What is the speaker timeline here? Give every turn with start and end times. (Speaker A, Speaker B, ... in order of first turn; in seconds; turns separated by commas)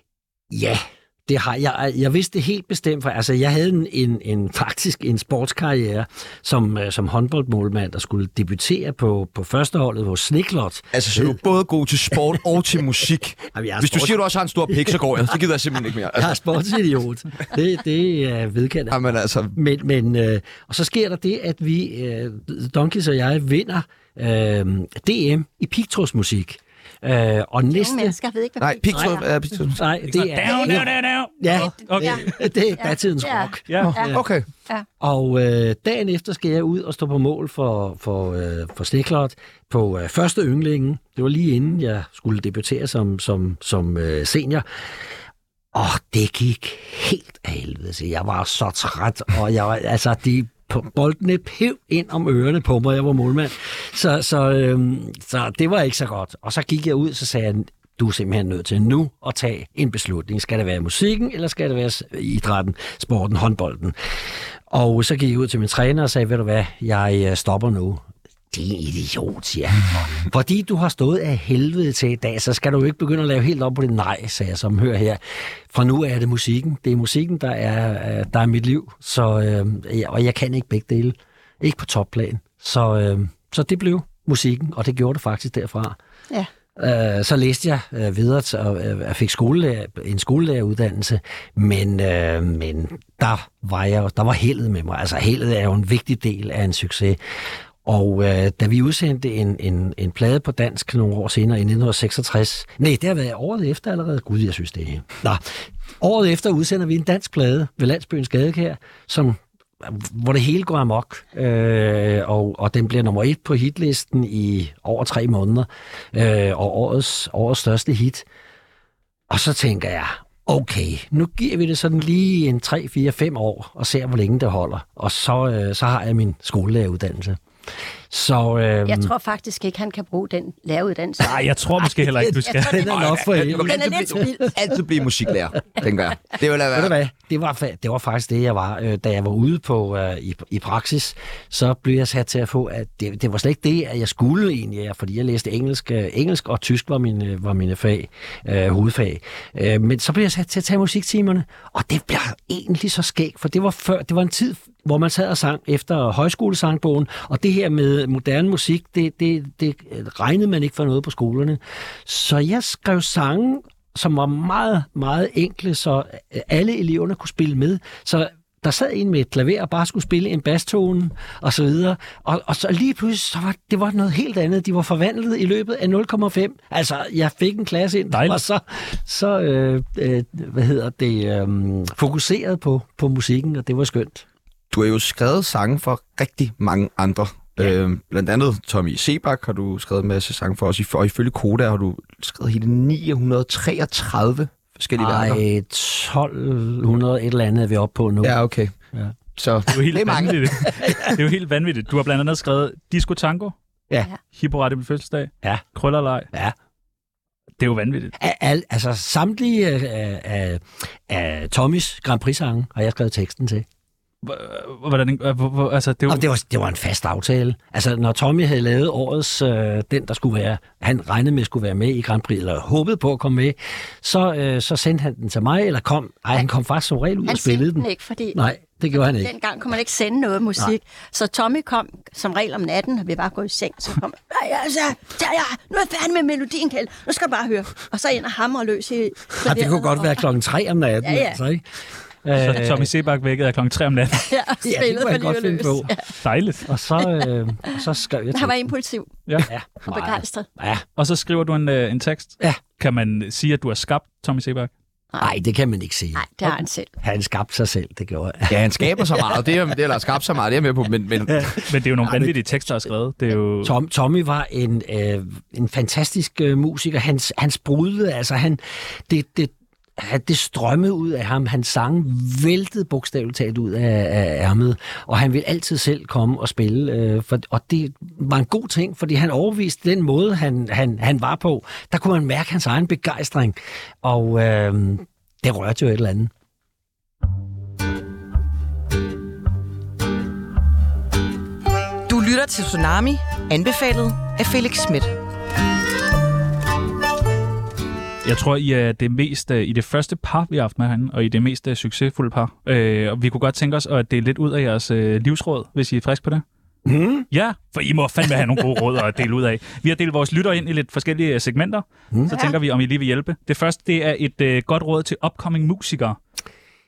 Speaker A: 0.5-11.4, Speaker B: 10.9-16.3, Speaker A: 13.5-15.0, Speaker A: 16.1-19.0, Speaker B: 18.9-19.5, Speaker A: 19.5-28.1, Speaker C: 27.7-29.2, Speaker B: 28.6-29.8, Speaker A: 29.7-34.2, Speaker D: 30.0-32.3, Speaker C: 30.5-30.8, Speaker C: 31.6-34.8, Speaker D: 33.7-34.0, Speaker B: 33.8-34.5, Speaker A: 35.0-44.6, Speaker A: 45.7-64.0, Speaker A: 64.7-86.0, Speaker A: 86.8-97.2, Speaker A: 97.8-105.4, Speaker A: 106.0-118.2, Speaker A: 119.3-127.4, Speaker A: 128.1-129.1, Speaker C: 128.8-131.4, Speaker D: 131.2-132.9, Speaker A: 131.9-134.5, Speaker B: 132.8-136.9, Speaker C: 133.5-134.6, Speaker A: 136.7-184.2, Speaker D: 178.1-178.4, Speaker B: 184.7-195.4, Speaker A: 195.0-198.4, Speaker B: 198.2-198.7, Speaker B: 199.3-201.0, Speaker D: 199.7-203.5, Speaker D: 204.3-206.3, Speaker D: 207.6-208.1, Speaker A: 208.2-213.7, Speaker D: 214.2-216.2, Speaker A: 216.1-229.3, Speaker C: 227.2-228.4, Speaker C: 229.0-240.2, Speaker A: 239.4-241.6, Speaker C: 241.0-241.4, Speaker A: 242.2-242.9, Speaker D: 242.3-244.3, Speaker C: 244.3-246.1, Speaker A: 244.6-245.9, Speaker D: 246.2-246.7, Speaker A: 246.7-248.7, Speaker C: 248.3-249.1, Speaker A: 249.4-250.8, Speaker C: 249.8-250.5, Speaker D: 251.0-254.7, Speaker A: 255.2-259.5, Speaker C: 256.1-256.9, Speaker B: 258.5-261.6, Speaker A: 261.3-262.3, Speaker D: 261.7-263.7, Speaker A: 263.6-286.3, Speaker E: 292.1-295.1, Speaker D: 298.2-306.4, Speaker A: 306.9-307.3, Speaker D: 307.3-316.2, Speaker A: 312.1-312.4